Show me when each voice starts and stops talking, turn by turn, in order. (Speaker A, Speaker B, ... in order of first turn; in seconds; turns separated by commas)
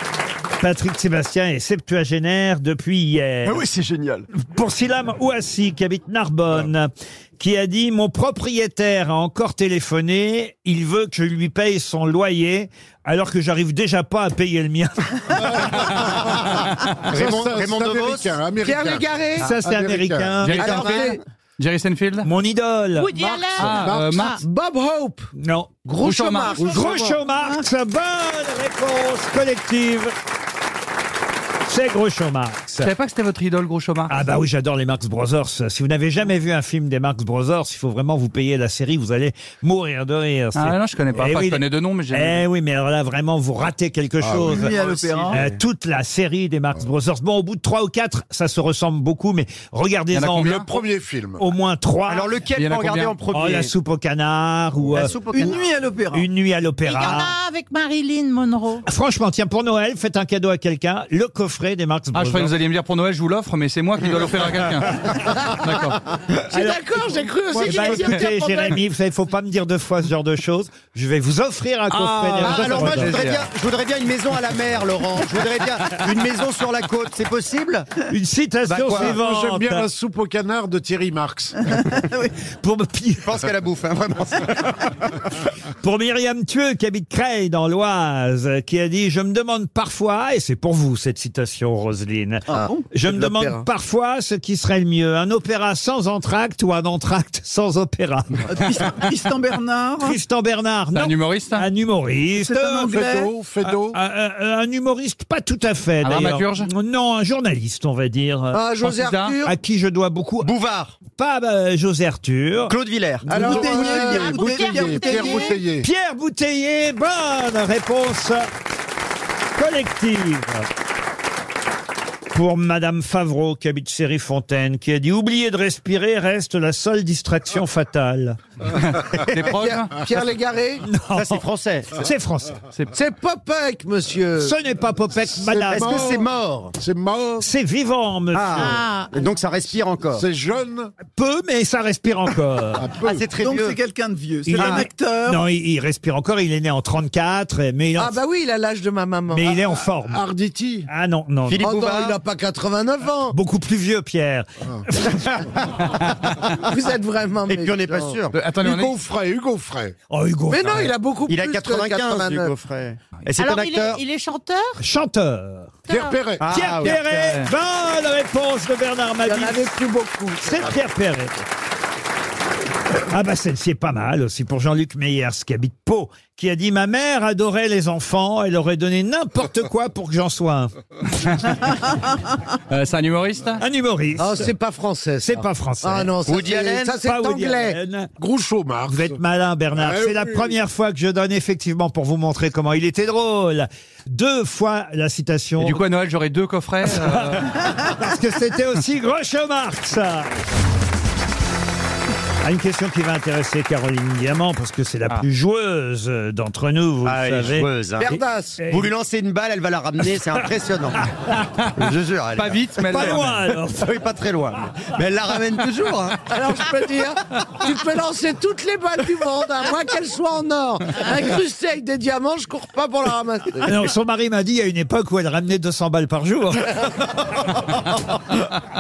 Speaker A: 0.6-3.6, Speaker B: 3.4-4.3, Speaker A: 4.3-15.9, Speaker C: 15.4-16.5, Speaker C: 17.1-20.4, Speaker B: 17.1-18.4, Speaker D: 18.6-19.4, Speaker A: 19.4-20.9, Speaker E: 20.4-22.3, Speaker D: 20.6-21.2, Speaker B: 20.6-21.2, Speaker A: 22.2-23.1, Speaker F: 23.0-24.4, Speaker C: 23.1-24.3, Speaker E: 23.6-24.4, Speaker D: 24.4-25.3, Speaker A: 25.4-25.8, Speaker D: 25.8-27.1, Speaker E: 26.0-26.6, Speaker A: 26.6-30.1, Speaker C: 26.6-26.9, Speaker G: 27.3-27.7, Speaker A: 31.6-32.9, Speaker E: 32.8-34.1, Speaker A: 34.1-44.8, Speaker E: 40.6-42.4, Speaker C: 44.2-44.7, Speaker G: 44.4-45.4, Speaker A: 45.3-50.7, Speaker E: 50.1-50.7, Speaker C: 50.6-51.4, Speaker A: 51.4-52.3, Speaker B: 52.1-53.7, Speaker E: 52.6-53.1, Speaker A: 53.3-55.1, Speaker B: 54.9-55.7, Speaker G: 55.0-56.3, Speaker A: 56.1-57.3, Speaker F: 56.9-58.8, Speaker A: 58.9-62.5, Speaker E: 62.1-66.0, Speaker D: 66.5-68.8, Speaker A: 66.5-73.5, Speaker C: 67.6-68.0, Speaker E: 71.9-73.3, Speaker B: 72.4-77.9, Speaker A: 78.1-79.9, Speaker B: 78.7-79.2, Speaker C: 78.9-81.6, Speaker G: 81.7-82.3, Speaker A: 82.5-83.3, Speaker B: 83.2-85.1, Speaker A: 85.8-98.4, Speaker G: 92.5-92.9, Speaker D: 92.6-93.6, Speaker G: 98.5-100.2, Speaker A: 100.0-103.1, Speaker E: 100.9-101.6, Speaker G: 102.3-103.3, Speaker C: 102.8-104.0, Speaker A: 103.9-108.6, Speaker E: 106.0-106.7, Speaker D: 108.5-109.5, Speaker E: 108.8-109.4, Speaker A: 109.4-110.5, Speaker B: 110.4-111.0, Speaker A: 111.1-114.2, Speaker B: 112.7-113.3, Speaker D: 113.3-114.4, Speaker G: 113.3-115.4, Speaker C: 113.7-115.9, Speaker F: 114.0-115.6, Speaker A: 115.8-118.5, Speaker A: 119.5-120.7, Speaker A: 122.3-128.4, Speaker E: 128.8-130.0, Speaker B: 129.2-129.5, Speaker D: 129.5-130.9, Speaker A: 130.8-131.4, Speaker B: 131.1-132.0, Speaker A: 131.9-132.6, Speaker D: 132.9-134.5, Speaker A: 134.4-136.1, Speaker C: 135.4-136.3, Speaker B: 135.7-136.8, Speaker C: 136.8-137.5, Speaker A: 137.4-138.8, Speaker B: 138.3-140.2, Speaker F: 138.6-139.1, Speaker C: 140.1-140.9, Speaker A: 141.1-142.9, Speaker C: 142.8-143.2, Speaker B: 143.0-143.8, Speaker G: 143.4-145.4, Speaker A: 144.5-148.1, Speaker B: 144.6-144.9, Speaker D: 147.9-149.6, Speaker A: 149.3-150.2, Speaker C: 150.1-150.9, Speaker A: 150.9-151.7, Speaker B: 151.5-152.2, Speaker D: 151.6-153.3, Speaker A: 153.3-155.4, Speaker D: 156.7-158.2, Speaker B: 157.5-158.3, Speaker E: 158.3-158.9, Speaker C: 158.6-159.9, Speaker A: 160.1-160.9, Speaker D: 160.5-162.5, Speaker B: 161.3-164.0, Speaker F: 163.4-164.8, Speaker A: 164.8-165.8, Speaker F: 165.9-166.2, Speaker C: 165.9-166.6, Speaker B: 166.4-167.1, Speaker A: 166.5-169.7, Speaker E: 166.8-167.5, Speaker D: 169.2-170.7, Speaker A: 170.4-171.3, Speaker A: 173.1-180.7, Speaker E: 182.7-183.6, Speaker A: 183.6-184.5, Speaker D: 184.2-187.8, Speaker A: 185.2-186.1, Speaker B: 186.2-187.0, Speaker A: 186.9-188.1, Speaker C: 188.2-189.1, Speaker A: 188.9-195.8, Speaker C: 189.8-190.6, Speaker E: 195.6-197.5, Speaker A: 196.8-200.3, Speaker A: 202.4-208.9, Speaker B: 207.0-211.1, Speaker D: 208.0-208.6, Speaker B: 211.8-212.6, Speaker E: 212.4-213.5, Speaker A: 212.9-214.0, Speaker B: 213.8-216.3, Speaker D: 216.2-223.9, Speaker A: 223.6-226.7